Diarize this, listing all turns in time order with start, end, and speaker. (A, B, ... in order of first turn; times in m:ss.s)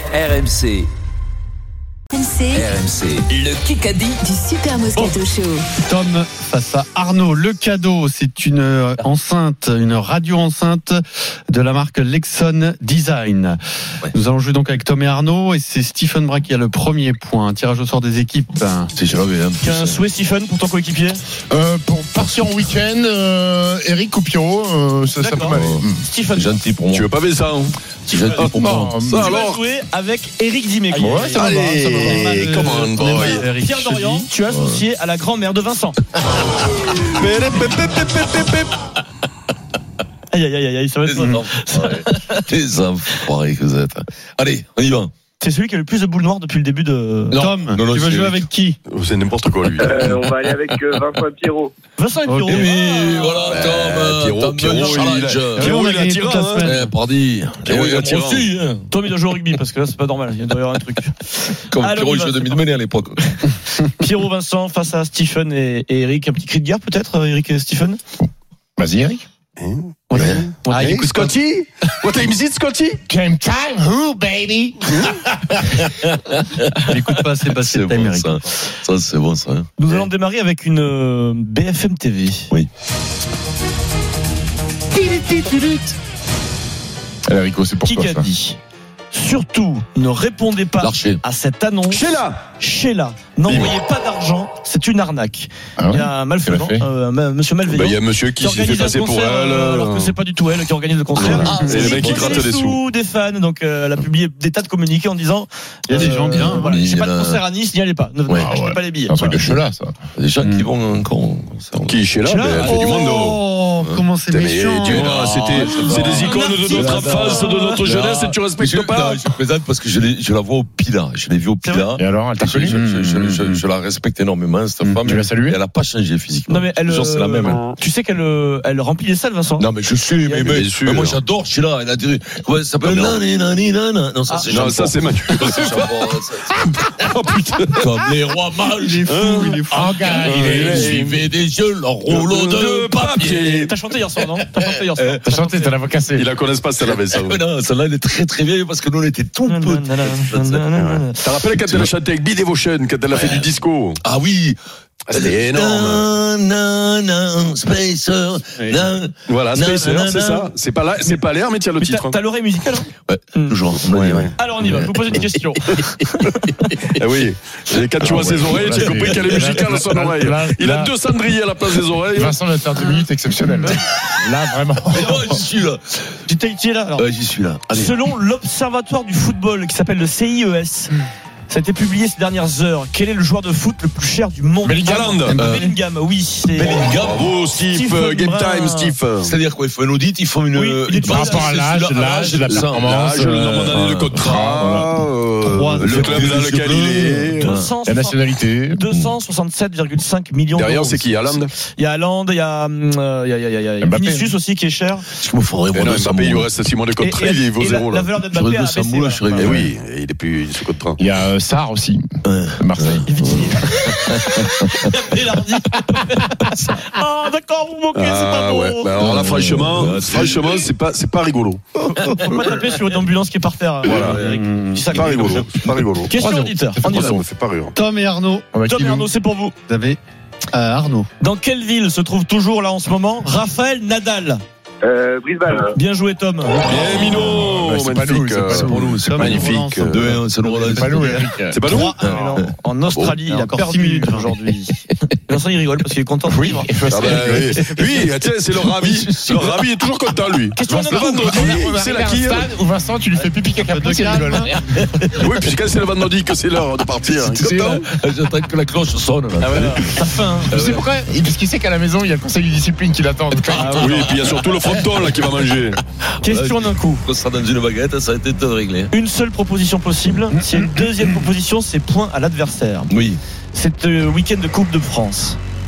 0:00.1-0:00.9 A
0:02.1-0:02.7 B
0:02.6-0:04.2 A
0:04.2-0:05.7 B
0:05.8-0:18.9 C
0:18.9-0:20.0 D
0:19.6-0:21.2 E
0:21.5-0:26.0 F
0:25.2-0:26.5 E
0:25.5-0:27.1 D
0:26.9-0:27.8 G
0:28.1-0:28.5 E
0:28.1-0:29.0 D
0:28.5-0:29.3 F
0:29.0-0:29.6 G
0:29.1-0:32.3 E
0:30.9-0:31.7 F
0:31.0-0:34.3 C
0:31.3-0:33.4 G
0:33.2-0:36.0 E
0:34.5-0:34.8 D
0:37.0-0:38.7 G
0:40.3-0:42.4 E
0:41.0-0:45.1 D
0:45.4-0:47.4 E
0:47.3-0:48.5 D
0:47.4-0:48.8 C
0:48.9-0:50.3 G
0:49.8-0:51.7 H
0:50.0-0:50.3 D
0:52.0-0:53.6 E
0:52.2-0:52.7 C
0:52.5-0:55.8 D
0:53.4-0:56.8 G
0:55.5-0:56.9 C
0:56.6-0:58.7 D
0:57.6-0:58.5 G
0:58.2-1:02.6 E
1:01.7-1:03.4 D
1:03.3-1:08.0 E
1:08.8-1:09.2 F
1:09.6-1:13.0 G
1:10.1-1:11.0 E
1:10.1-1:10.5 D
1:10.7-1:11.4 C
1:13.1-1:15.7 F
1:15.6-1:20.0 D
1:16.8-1:18.4 C
1:19.8-1:22.5 E
1:24.9-1:25.9 F
1:27.3-1:28.3 F
1:27.8-1:28.6 E
1:29.1-1:49.4 E
1:30.8-1:31.2 D
1:31.9-1:32.4 G
1:33.5-1:33.7 G
1:35.8-1:36.8 F
1:37.7-1:40.1 G
1:41.2-1:42.8 G
1:41.2-1:42.4 D
1:41.3-1:42.2 C
1:45.9-1:46.7 C
1:45.9-1:47.4 D
1:48.3-1:48.5 D
1:48.3-1:49.9 F
1:50.2-1:52.1 D
1:50.4-1:50.7 C
1:51.8-1:53.4 G
1:52.2-1:53.0 E
1:52.3-1:56.2 C
1:54.3-1:59.2 G
1:54.8-2:07.6 D
1:55.6-1:58.3 E
2:01.6-2:01.9 E
2:02.0-2:02.8 F
2:02.7-2:03.6 C
2:04.8-2:05.2 C
2:05.0-2:05.6 F
2:06.5-2:09.7 E
2:09.6-2:17.1 D
2:10.4-2:11.2 G
2:12.8-2:13.2 G
2:14.3-2:14.6 E
2:14.5-2:17.9 G
2:17.8-2:19.5 D
2:18.6-2:20.6 C
2:19.0-2:19.6 G
2:19.7-2:21.1 F
2:20.2-2:23.4 D
2:20.2-2:21.2 G
2:22.1-2:23.7 G
2:23.0-2:25.8 E
2:24.5-2:25.1 D
2:25.2-2:26.3 F
2:26.1-2:27.4 G
2:26.8-2:30.6 D
2:29.4-2:31.3 E
2:30.7-2:34.0 G
2:31.6-2:31.9 D
2:33.1-2:34.6 D
2:35.1-2:36.1 G
2:35.1-2:40.5 D
2:39.3-2:42.2 G
2:41.7-2:43.6 E
2:43.1-2:44.9 D
2:43.9-2:44.3 G
2:44.4-2:46.9 E
2:46.9-2:52.3 G
2:48.0-2:50.9 F
2:49.4-2:49.6 E
2:52.1-2:55.4 F
2:54.9-2:56.1 D
2:56.3-2:57.0 E
2:57.0-2:58.0 D
2:57.7-3:00.9 E
3:01.5-3:07.0 E
3:04.6-3:05.2 F
3:04.8-3:05.4 G
3:05.3-3:05.7 C
3:05.4-3:05.6 D
3:06.5-3:07.3 D
3:07.0-3:09.3 G
3:07.6-3:09.0 E
3:09.2-3:12.8 D
3:10.5-3:11.6 E
3:11.0-3:16.2 F
3:12.5-3:17.5 G
3:13.6-3:14.2 D
3:15.4-3:16.4 C
3:15.8-3:17.7 D
3:17.4-3:25.0 E
3:17.8-3:18.8 F
3:20.5-3:21.5 G
3:23.8-3:24.3 F
3:25.2-3:26.5 D
3:25.7-3:28.1 G
3:27.0-3:29.6 E
3:28.3-3:29.7 D
3:29.4-3:31.0 G
3:31.0-3:32.0 F
3:32.2-3:34.9 D
3:32.6-3:33.0 F
3:33.1-3:38.9 E
3:38.0-3:41.6 G
3:39.0-3:40.6 D
3:39.1-3:39.9 F
3:41.9-3:45.5 E
3:43.8-3:44.3 G
3:44.0-3:45.0 C
3:44.9-3:46.1 G
3:46.1-3:47.2 E
3:46.1-3:47.2 F
3:46.8-3:47.8 G
3:47.7-3:48.5 C
3:48.5-3:49.1 F
3:48.6-3:49.5 E
3:49.7-3:50.0 C
3:50.5-3:51.1 C
3:51.2-3:54.4 E
3:54.8-3:55.7 H
3:55.7-3:57.1 E
3:56.6-4:00.1 G
3:57.1-3:58.8 F
3:58.5-4:02.5 D
3:59.0-4:02.4 C
4:00.6-4:01.6 F
4:01.5-4:01.9 G
4:01.9-4:07.4 E
4:03.2-4:04.3 C
4:06.3-4:07.6 F
4:06.9-4:12.5 G
4:08.7-4:09.6 D
4:10.6-4:11.6 E
4:10.6-4:14.8 F
4:13.6-4:14.6 C
4:15.1-4:17.8 G
4:17.1-4:17.8 F
4:17.8-4:20.9 D
4:19.4-4:20.5 E
4:20.5-4:23.9 F
4:23.4-4:25.3 D
4:23.5-4:24.1 E
4:23.8-4:25.8 G
4:26.2-4:27.0 E
4:26.2-4:28.9 D
4:28.9-4:32.9 E
4:32.9-4:33.2 D
4:33.5-4:35.4 E